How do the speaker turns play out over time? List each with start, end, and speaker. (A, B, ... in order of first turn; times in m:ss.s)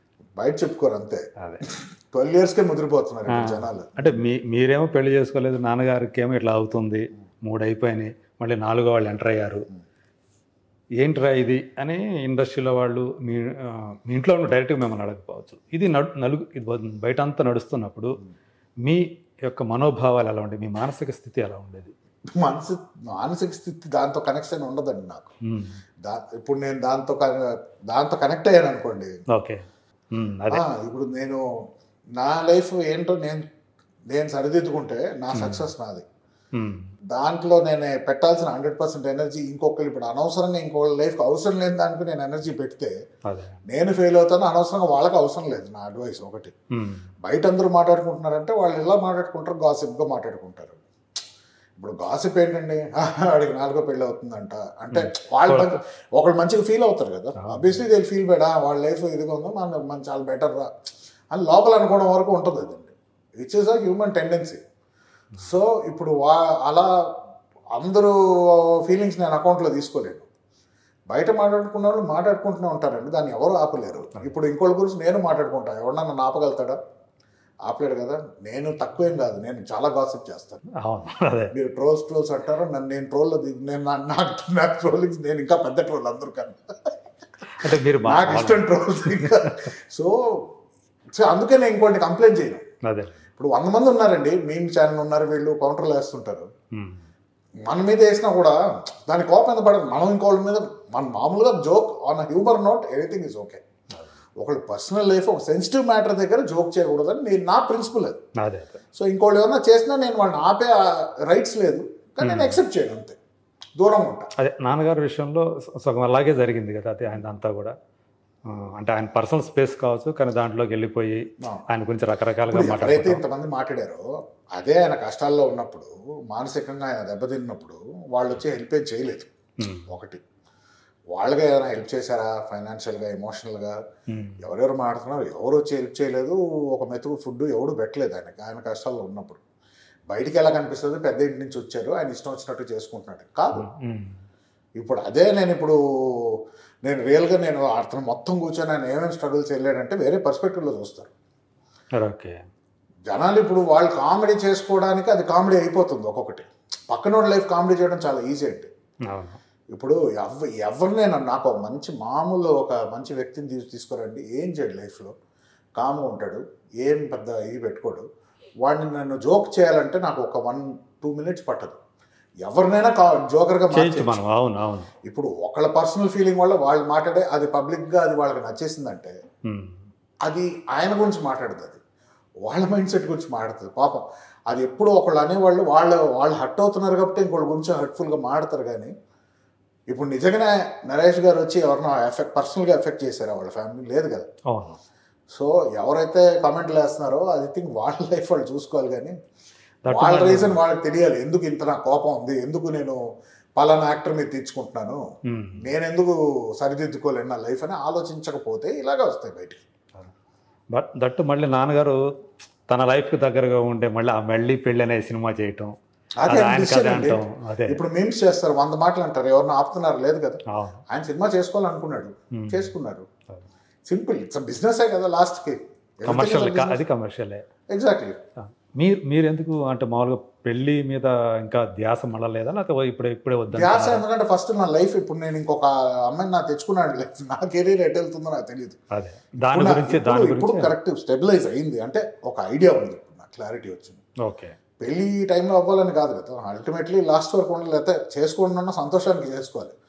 0:00.4-0:01.2 A
0:02.1-0:04.2 A
0:03.4-0:09.6 B
0:11.0-0:18.1 B
0:18.8-0:21.9 B
0:22.4-0:25.3 A
0:25.5-0:25.8 B
0:26.0-0:29.1 A
0:29.3-0:30.6 B
0:30.5-0:31.4 A
0:32.2-0:33.4 A
0:34.1-0:36.0 A
0:35.3-0:35.6 B
0:36.6-0:36.9 B
0:37.1-0:42.9 A
0:43.3-0:43.6 B
0:43.7-0:46.5 A
0:46.8-0:47.0 B
0:47.2-0:50.8 A
0:51.8-1:00.7 A
0:54.9-0:55.8 B
0:57.4-0:57.8 B
1:01.3-1:04.6 A
1:05.4-1:06.9 A
1:07.8-1:10.2 A
1:11.1-1:16.8 A
1:17.6-1:20.6 A
1:20.8-1:21.5 B
1:21.5-1:26.6 A
1:27.6-1:29.5 B
1:28.0-1:30.1 A
1:31.2-1:32.6 A
1:32.9-1:33.2 B
1:33.4-1:36.5 A
1:36.8-1:37.0 B
1:37.7-1:43.6 A
1:44.4-1:48.2 A
1:48.4-1:48.8 B
1:48.9-1:53.2 A
1:52.2-1:52.6 B
1:53.8-1:54.3 A
1:54.4-1:57.7 B
1:58.5-2:03.2 B
2:02.5-2:04.0 A
2:04.5-2:09.3 A
2:09.6-2:09.8 B
2:09.9-2:10.2 A
2:11.1-2:13.8 A
2:14.1-2:14.4 B
2:14.4-2:19.4 A
2:20.1-2:23.6 A
2:23.5-2:24.1 B
2:24.8-2:25.8 A
2:26.8-2:31.1 A
2:32.0-2:32.4 B
2:33.1-2:38.7 A
2:39.1-2:39.4 B
2:39.7-2:45.1 A
2:45.8-2:48.0 A
2:48.6-2:51.8 A
2:52.4-2:54.2 A
2:53.7-2:54.9 B
2:55.1-2:59.1 A
2:59.5-2:59.8 B
3:00.2-3:01.8 A
3:02.4-3:08.9 A
3:09.9-3:14.3 A
3:14.5-3:14.8 B
3:15.3-3:19.1 A
3:19.8-3:20.6 B
3:19.9-3:23.0 A
3:23.6-3:25.0 A
3:25.3-3:25.6 B
3:25.6-3:29.6 A
3:30.7-3:32.0 B
3:32.7-3:35.7 B
3:36.2-3:43.0 A
3:36.2-3:37.8 B
3:40.5-3:40.8 B
3:42.4-3:42.7 B
3:43.9-3:46.8 A
3:46.0-3:47.4 B
3:47.7-3:48.2 A
3:48.4-3:54.0 B
3:53.5-3:58.8 A
3:58.9-4:00.7 B
3:59.4-4:04.0 A
4:04.2-4:04.6 B
4:04.8-4:09.7 A